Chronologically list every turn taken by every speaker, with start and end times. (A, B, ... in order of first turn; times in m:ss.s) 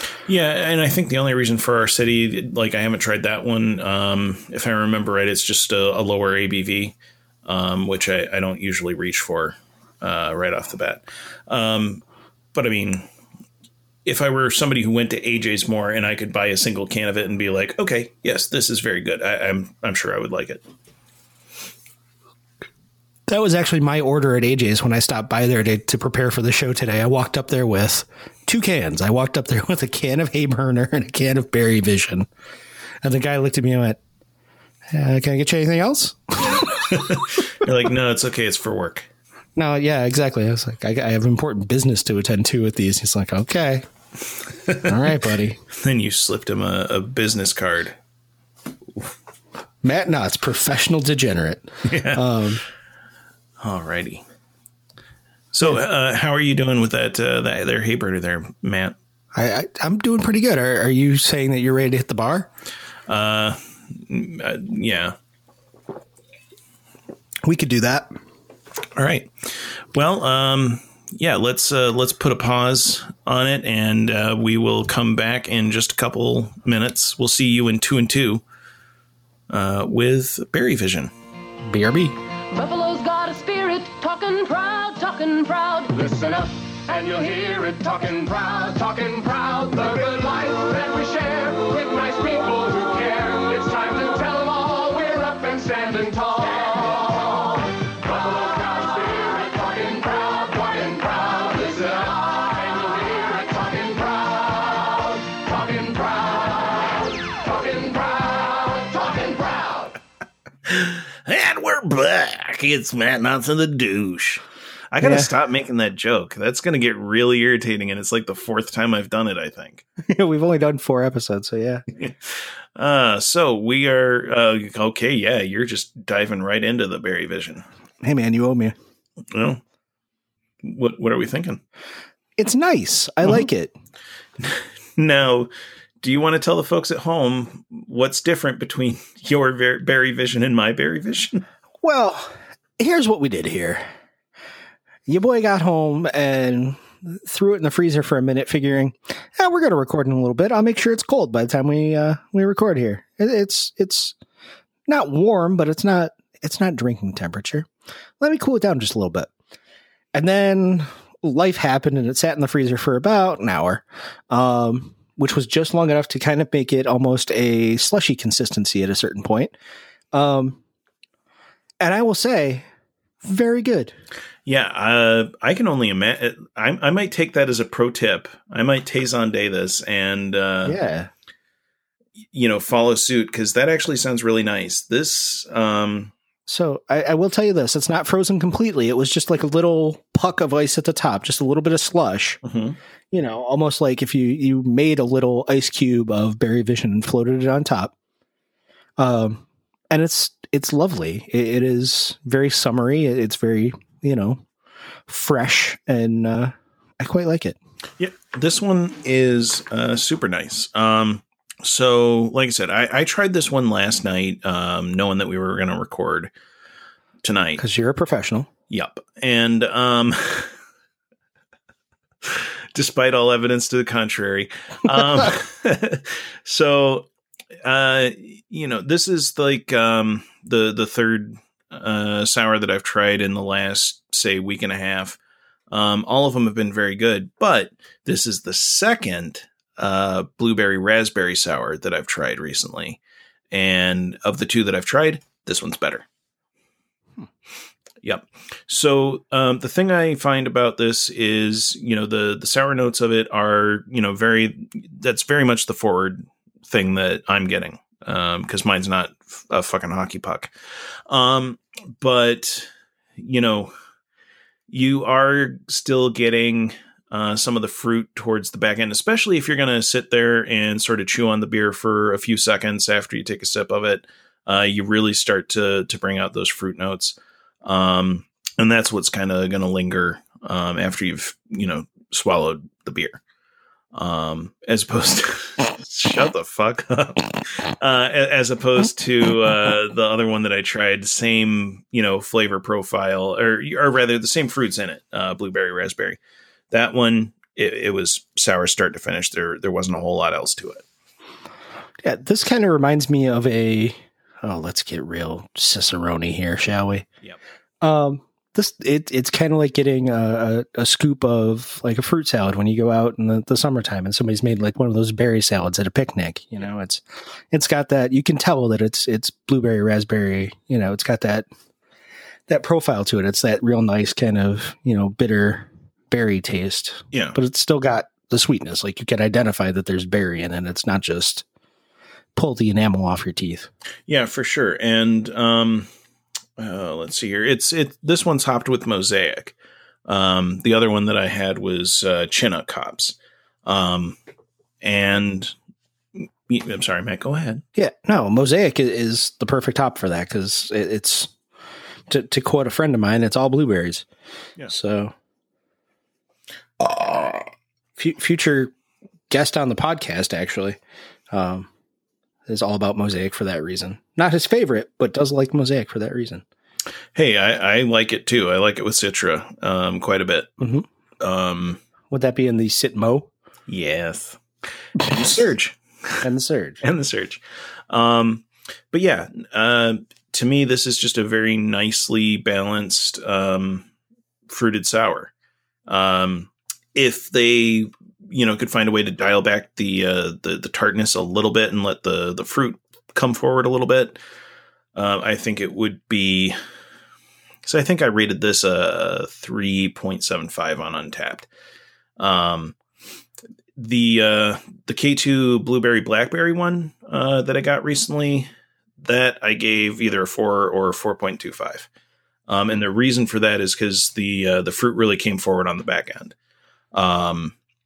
0:00.3-0:12.0 A
0:12.5-0:13.1 A
0:14.0-0:20.6 A
0:23.3-0:32.3 B
0:33.0-0:34.0 B
0:34.9-0:37.0 B
0:36.7-0:39.1 A
0:39.6-0:43.8 B
0:44.6-0:45.1 A
0:44.7-0:45.6 B
0:45.7-0:48.0 A
0:49.8-0:52.6 B
0:51.8-0:52.3 A
0:53.6-0:54.2 A
0:55.5-0:59.0 A
0:59.3-1:02.5 B
1:03.1-1:05.2 A
1:07.4-1:08.1 B
1:08.9-1:18.4 A
1:19.5-1:21.1 A
1:21.6-1:22.2 B
1:22.5-1:50.0 C
1:50.6-1:59.8 A
1:55.0-1:55.3 B
2:00.0-2:01.8 B
2:01.9-2:07.6 A
2:08.0-2:08.7 B
2:09.3-2:09.6 A
2:10.6-2:11.6 A
2:12.4-2:13.7 B
2:14.4-2:15.5 A
2:16.0-2:21.4 A
2:21.8-2:23.8 B
2:25.1-2:34.1 B
2:34.9-2:37.7 B
2:38.2-2:39.3 B
2:40.1-2:49.5 B
2:50.1-2:50.6 B
2:51.8-2:52.6 B
2:53.2-2:53.9 B
2:54.4-3:00.8 A
3:00.6-3:01.1 B
3:02.3-3:06.1 A
3:06.5-3:12.4 B
3:12.4-3:12.8 A
3:13.1-3:17.9 B
3:19.0-3:24.4 B
3:25.1-3:27.6 B
3:28.0-3:36.3 A
3:37.2-3:37.6 A
3:37.6-3:38.5 B
3:38.7-3:40.5 A
3:42.2-3:47.1 A
3:47.6-3:55.2 A
3:55.7-4:03.0 A
4:03.5-4:06.0 A
4:08.0-4:20.5 A
4:21.1-4:23.7 A
4:24.7-4:43.2 A
4:43.9-4:56.2 A
4:56.7-5:00.8 A
5:02.0-5:07.1 B
5:07.8-5:21.5 B
5:22.5-5:31.4 B
5:32.3-5:33.7 B
5:34.1-5:35.9 A
5:36.6-5:39.5 A
5:40.0-5:44.2 A
5:44.8-5:45.5 A
5:46.2-5:47.6 A
5:47.8-5:51.3 B
5:52.1-5:54.0 B
5:54.7-5:55.1 B
5:56.8-5:58.7 B
5:59.3-6:00.8 B
6:01.3-6:01.7 B
6:02.5-6:06.4 B
6:07.1-6:10.5 A
6:10.6-6:10.8 B
6:11.2-6:11.8 A
6:12.1-6:13.3 B
6:13.7-6:14.4 A
6:15.0-6:16.2 A
6:16.2-6:16.8 B
6:16.8-6:23.9 A
6:24.5-6:25.3 A
6:25.9-6:34.2 A
6:34.9-6:36.6 A
6:37.6-6:41.5 A
6:42.2-6:42.8 A
6:43.7-6:51.9 A
6:52.5-6:56.3 A
6:56.9-6:57.5 A